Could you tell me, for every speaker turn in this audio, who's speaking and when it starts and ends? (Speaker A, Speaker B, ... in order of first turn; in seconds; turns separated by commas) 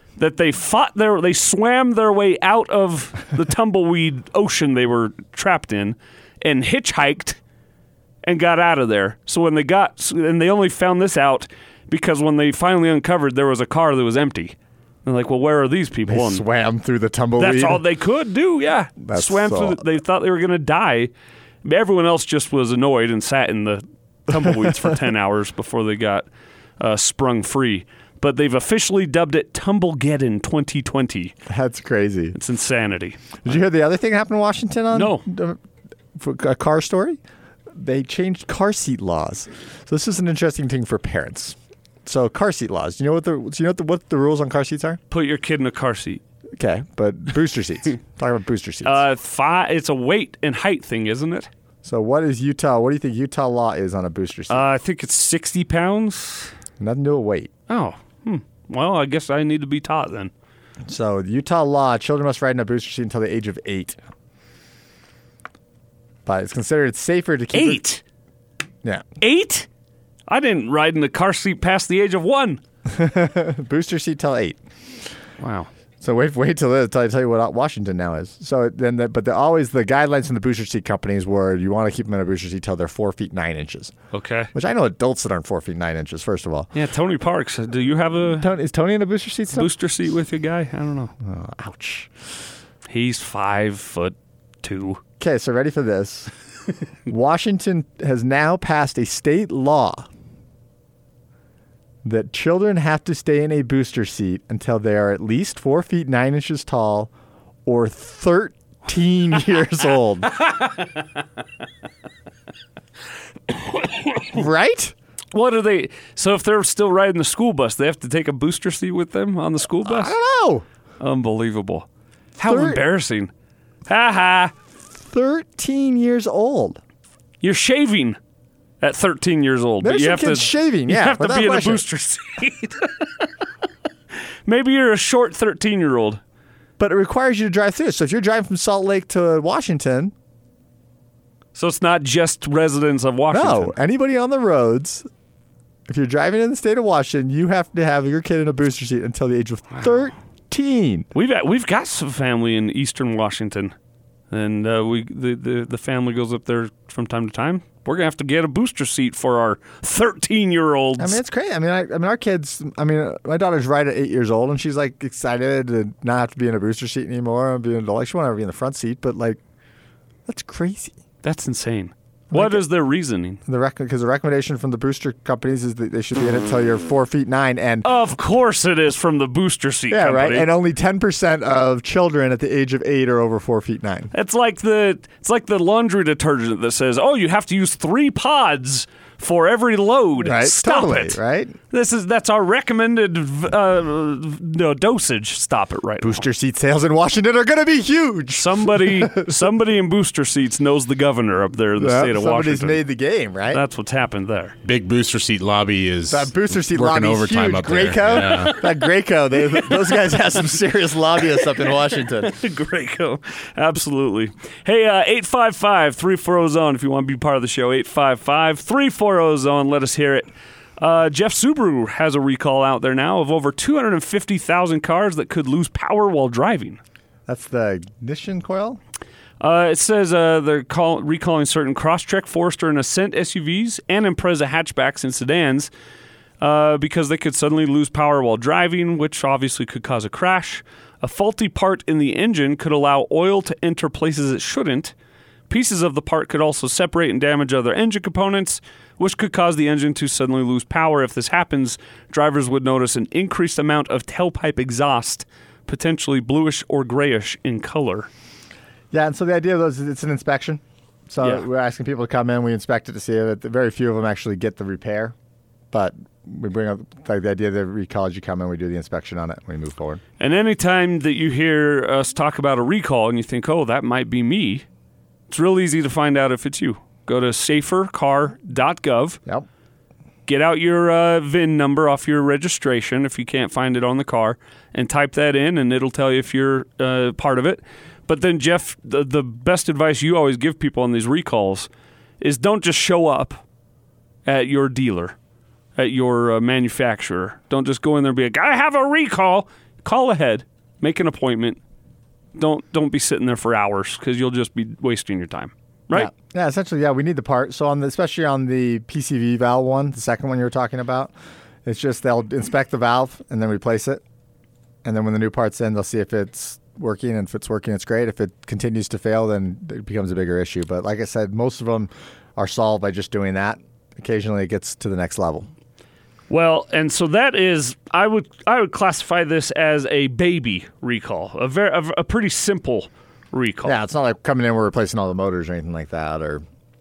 Speaker A: 0.2-7.4, Speaker A: 8.2-16.4, Speaker B: 16.1-17.8, Speaker A: 17.4-21.1, Speaker B: 19.1-19.8, Speaker A: 21.6-26.3, Speaker B: 24.5-24.9, Speaker A: 26.8-31.4, Speaker B: 31.5-32.4, Speaker A: 32.3-33.4, Speaker B: 33.4-35.6, Speaker A: 34.9-35.2, Speaker B: 36.1-37.2, Speaker B: 37.8-45.0, Speaker A: 45.1-46.2, Speaker B: 46.6-49.0, Speaker A: 48.9-51.5, Speaker B: 51.8-54.6, Speaker A: 54.5-56.5, Speaker B: 56.8-57.5, Speaker A: 57.7-60.3, Speaker B: 60.9-64.0, Speaker B: 66.3-67.8, Speaker A: 67.5-68.0, Speaker A: 69.2-69.7, Speaker A: 70.3-72.6, Speaker B: 72.9-74.6, Speaker A: 75.4-75.7, Speaker B: 76.0-83.9, Speaker A: 84.1-84.5, Speaker B: 84.5-86.7, Speaker A: 86.7-88.5, Speaker B: 88.4-89.7, Speaker A: 89.5-91.1, Speaker B: 91.2-92.1, Speaker A: 92.9-95.0, Speaker B: 95.2-96.3, Speaker B: 97.1-100.1, Speaker B: 102.0-107.1, Speaker B: 107.7-110.3, Speaker B: 114.3-114.9, Speaker A: 115.3-120.2, Speaker B: 119.8-120.7, Speaker A: 121.0-123.3, Speaker B: 122.4-122.8, Speaker A: 123.9-124.5, Speaker B: 124.9-126.8, Speaker A: 127.4-128.2, Speaker A: 128.8-133.3, Speaker B: 129.8-131.8, Speaker A: 134.5-136.2, Speaker B: 136.8-140.1, Speaker A: 141.6-143.8, Speaker B: 143.3-145.1, Speaker B: 145.9-151.1, Speaker A: 151.1-153.7, Speaker A: 154.3-161.2, Speaker B: 161.0-169.4, Speaker B: 170.3-171.0, Speaker A: 171.2-173.4, Speaker B: 172.3-172.6, Speaker B: 173.5-177.9, Speaker A: 177.8-180.5, Speaker B: 179.9-184.1, Speaker A: 184.1-191.2, Speaker B: 190.2-191.6, Speaker A: 191.7-196.2, Speaker B: 196.0-199.3, Speaker A: 198.3-202.8, Speaker B: 201.8-203.6, Speaker A: 203.5-204.6, Speaker C: 204.6-208.6, Speaker B: 206.1-212.3, Speaker A: 212.1-226.8, Speaker B: 227.3-228.8, Speaker A: 229.4-235.7, Speaker A: 236.4-244.9, Speaker A: 245.5-258.1, Speaker B: 258.9-265.1, Speaker B: 265.7-270.0, Speaker A: 270.2-274.6, Speaker A: 275.3-279.2, Speaker A: 280.2-291.7, Speaker A: 292.2-293.4, Speaker A: 294.2-295.1, Speaker A: 295.8-301.6, Speaker A: 302.4-306.1, Speaker B: 305.9-311.1, Speaker B: 311.6-314.0, Speaker B: 314.8-325.5, Speaker A: 326.3-333.8, Speaker B: 333.6-336.4